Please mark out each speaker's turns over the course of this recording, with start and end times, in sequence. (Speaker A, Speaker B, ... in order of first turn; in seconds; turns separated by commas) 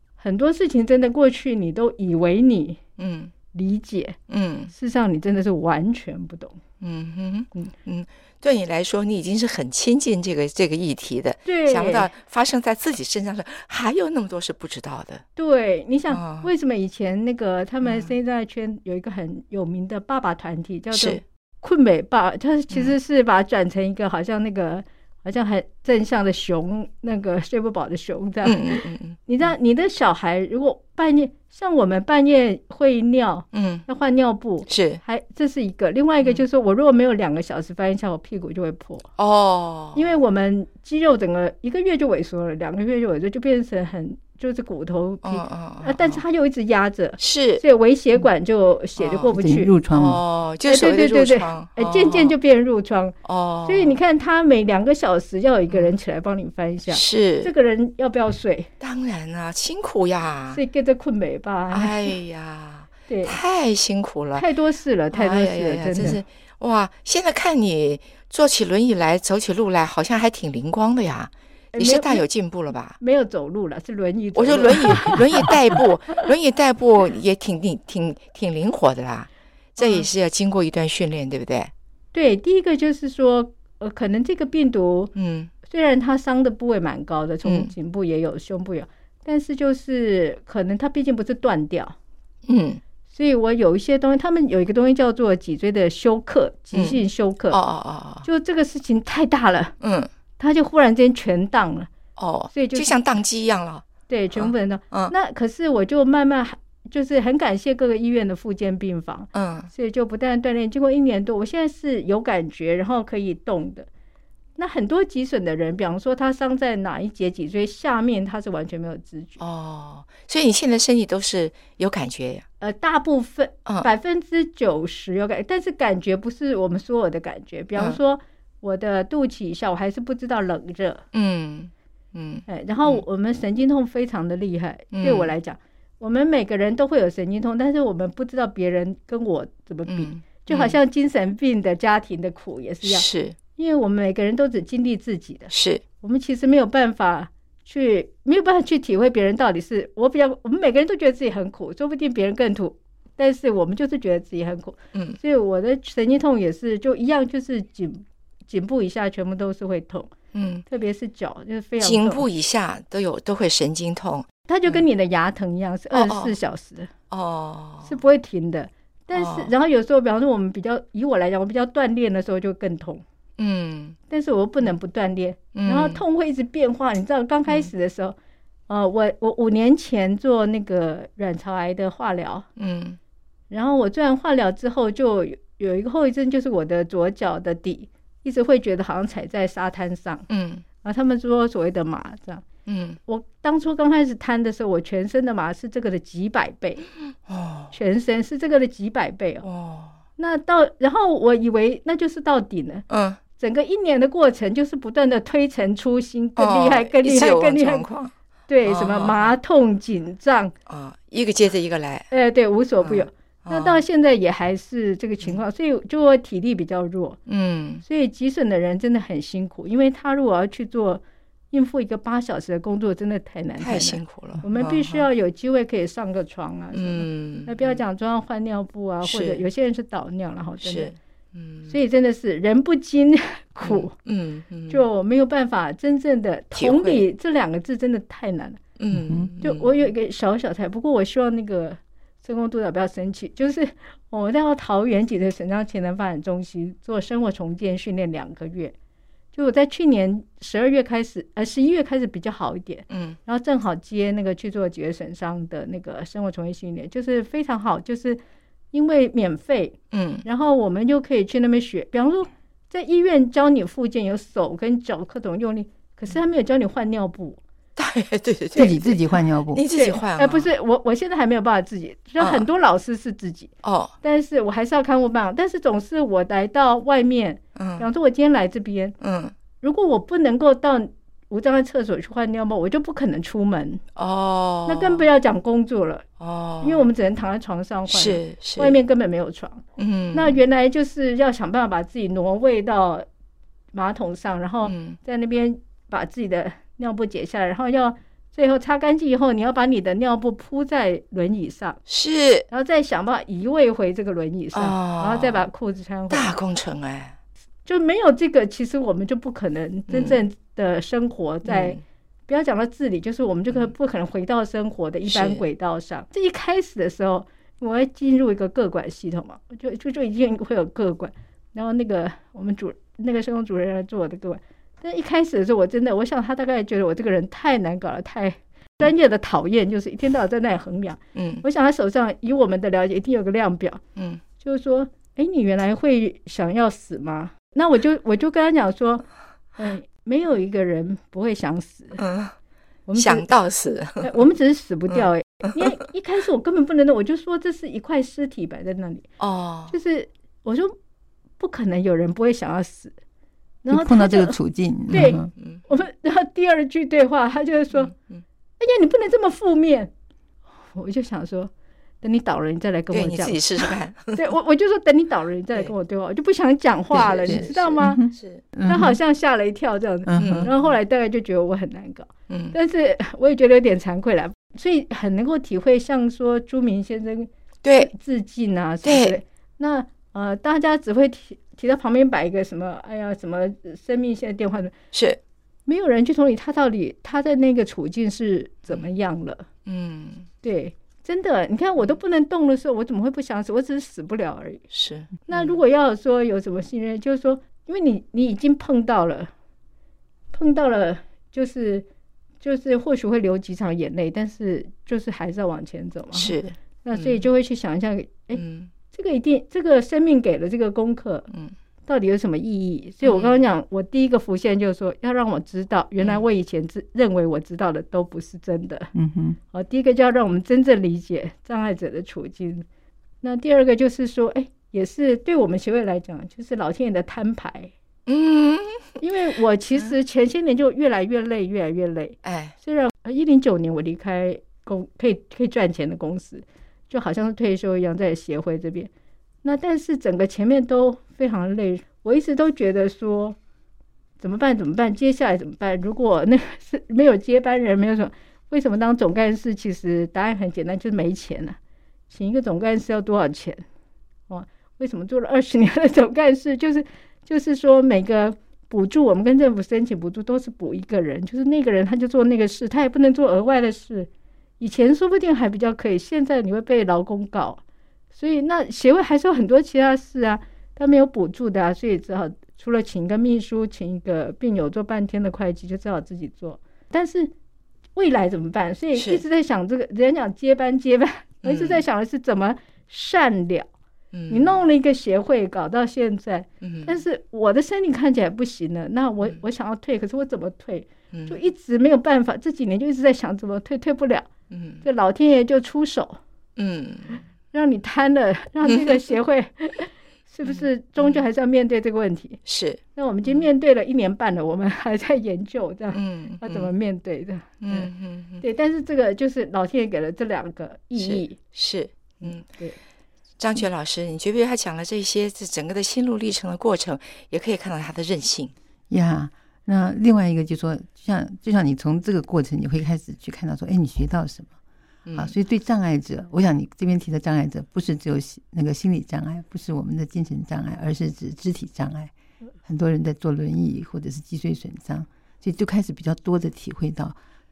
Speaker A: 0.2-2.8, Speaker B: 3.0-3.3, Speaker A: 3.5-4.2, Speaker B: 4.3-4.7, Speaker A: 4.7-6.6, Speaker B: 6.8-15.2, Speaker A: 11.4-12.1, Speaker A: 15.3-39.1, Speaker B: 16.1-16.5, Speaker B: 17.8-18.1, Speaker B: 20.9-21.2, Speaker B: 22.7-23.0, Speaker B: 28.4-29.2, Speaker B: 33.5-33.9, Speaker B: 34.7-35.0, Speaker B: 39.2-40.1, Speaker A: 39.9-49.7, Speaker B: 45.2-46.2, Speaker B: 47.2-47.6, Speaker B: 49.0-49.4, Speaker C: 49.3-50.2, Speaker B: 49.9-52.4, Speaker A: 50.7-58.7, Speaker B: 53.2-54.0, Speaker B: 55.7-56.0, Speaker B: 56.9-57.5, Speaker B: 58.8-60.6, Speaker A: 60.5-62.1, Speaker B: 61.7-64.5, Speaker A: 63.1-63.4, Speaker A: 64.3-66.2, Speaker B: 65.1-73.0, Speaker A: 71.7-72.2, Speaker A: 73.0-75.8, Speaker B: 74.3-81.7, Speaker A: 79.8-80.1, Speaker A: 82.1-85.1, Speaker B: 85.1-85.5, Speaker A: 85.6-91.9, Speaker B: 87.4-87.7, Speaker B: 92.5-92.8, Speaker A: 93.1-97.6, Speaker B: 96.7-98.2, Speaker A: 98.2-99.7, Speaker B: 99.8-100.1, Speaker A: 100.4-101.9, Speaker B: 102.2-105.1, Speaker A: 102.5-102.9, Speaker A: 104.1-113.9, Speaker B: 109.3-109.7, Speaker A: 114.6-119.4, Speaker B: 119.4-122.5, Speaker A: 122.6-131.0, Speaker B: 131.1-133.0, Speaker A: 132.5-160.1, Speaker B: 134.9-135.3, Speaker B: 139.9-140.8, Speaker B: 142.8-143.4, Speaker B: 145.5-145.8, Speaker B: 160.3-160.6, Speaker A: 160.7-162.2, Speaker B: 161.8-164.8, Speaker A: 164.5-166.9, Speaker B: 165.9-166.3, Speaker B: 167.1-168.0, Speaker A: 167.8-173.0, Speaker B: 169.1-169.5, Speaker B: 173.4-174.0, Speaker A: 174.1-178.2, Speaker B: 175.5-176.0, Speaker A: 178.7-182.4, Speaker B: 182.6-183.0, Speaker A: 183.5-190.3, Speaker B: 190.3-190.6, Speaker A: 190.8-192.4, Speaker B: 192.7-193.0, Speaker A: 193.1-196.9, Speaker B: 197.1-197.7, Speaker A: 197.7-199.4, Speaker B: 199.4-200.0, Speaker A: 200.2-202.8, Speaker B: 202.9-203.2, Speaker A: 203.4-207.8, Speaker B: 206.4-208.1, Speaker A: 208.5-210.5, Speaker B: 208.6-209.4, Speaker B: 210.7-212.1, Speaker A: 212.1-217.2, Speaker B: 212.8-213.8, Speaker B: 217.3-217.8, Speaker A: 217.8-230.9, Speaker B: 223.6-225.1, Speaker B: 226.7-227.8, Speaker B: 229.0-229.4, Speaker B: 230.6-231.8, Speaker A: 231.7-233.9, Speaker B: 233.6-234.8, Speaker A: 234.7-238.6, Speaker B: 236.5-237.0, Speaker B: 238.8-239.8, Speaker C: 238.9-239.3, Speaker A: 239.4-248.7, Speaker A: 249.3-258.2, Speaker B: 252.9-253.2, Speaker A: 258.7-267.4, Speaker B: 259.9-260.2, Speaker B: 267.8-270.5, Speaker C: 268.5-269.6, Speaker A: 269.7-273.5, Speaker B: 272.2-272.5, Speaker B: 273.6-273.9, Speaker A: 274.0-278.9, Speaker B: 277.6-277.9, Speaker B: 279.0-279.3, Speaker A: 279.6-283.8, Speaker B: 283.9-285.1, Speaker A: 284.6-286.1, Speaker B: 286.2-286.9, Speaker A: 286.6-293.1, Speaker B: 287.9-288.8, Speaker B: 289.8-290.4, Speaker A: 293.7-301.8, Speaker B: 294.6-295.0, Speaker B: 301.9-302.5, Speaker A: 302.5-306.3, Speaker B: 304.5-305.5, Speaker B: 306.1-307.2, Speaker A: 307.6-333.8, Speaker B: 309.9-310.2, Speaker B: 311.4-311.8, Speaker B: 315.1-315.4, Speaker B: 331.1-331.4, Speaker B: 333.9-334.2, Speaker A: 334.4-342.0, Speaker B: 342.0-342.3, Speaker A: 342.9-343.3, Speaker B: 342.9-344.2, Speaker A: 344.0-349.1, Speaker B: 344.9-345.7, Speaker B: 349.2-349.8, Speaker A: 349.7-350.7, Speaker A: 351.4-352.9, Speaker A: 353.6-354.4, Speaker C: 353.7-355.3, Speaker A: 354.9-357.9, Speaker B: 355.3-355.6, Speaker B: 357.7-358.2, Speaker A: 358.6-359.9, Speaker A: 360.7-361.5, Speaker A: 362.0-368.0, Speaker B: 362.9-364.3, Speaker B: 366.9-368.4, Speaker C: 367.3-369.0, Speaker A: 368.7-384.7, Speaker C: 370.1-370.5, Speaker B: 370.2-370.7, Speaker B: 372.3-372.6, Speaker B: 377.6-377.9, Speaker B: 378.8-379.1, Speaker B: 384.9-385.2, Speaker A: 385.7-389.5, Speaker B: 389.6-390.3, Speaker A: 390.4-394.6, Speaker B: 394.7-395.6, Speaker A: 395.3-399.3, Speaker A: 400.3-401.9, Speaker A: 402.4-411.3, Speaker B: 406.1-407.2, Speaker B: 408.3-408.7, Speaker A: 411.9-418.9, Speaker B: 413.0-413.4, Speaker C: 418.9-419.4, Speaker A: 419.5-422.6, Speaker A: 423.2-427.7, Speaker B: 428.1-429.0, Speaker A: 429.0-438.9, Speaker B: 432.2-432.6, Speaker A: 439.4-443.4, Speaker A: 444.2-451.6, Speaker A: 452.1-453.6, Speaker A: 454.3-464.1, Speaker A: 464.6-467.6, Speaker A: 468.1-477.3, Speaker A: 477.9-483.7, Speaker B: 478.9-479.2, Speaker B: 481.4-481.8, Speaker B: 484.1-484.6, Speaker A: 484.3-494.3, Speaker B: 486.6-487.0, Speaker B: 491.1-491.4, Speaker B: 494.5-494.8, Speaker A: 494.8-496.2, Speaker B: 496.6-497.2, Speaker A: 497.5-502.4, Speaker B: 498.6-499.0, Speaker B: 500.4-501.2, Speaker B: 502.4-503.5, Speaker A: 502.9-511.4, Speaker B: 505.9-506.7, Speaker B: 507.6-508.4, Speaker B: 511.0-512.4, Speaker A: 512.2-512.8, Speaker B: 513.4-518.5, Speaker C: 518.9-524.5, Speaker B: 525.0-525.3, Speaker C: 525.1-532.1, Speaker C: 532.6-537.2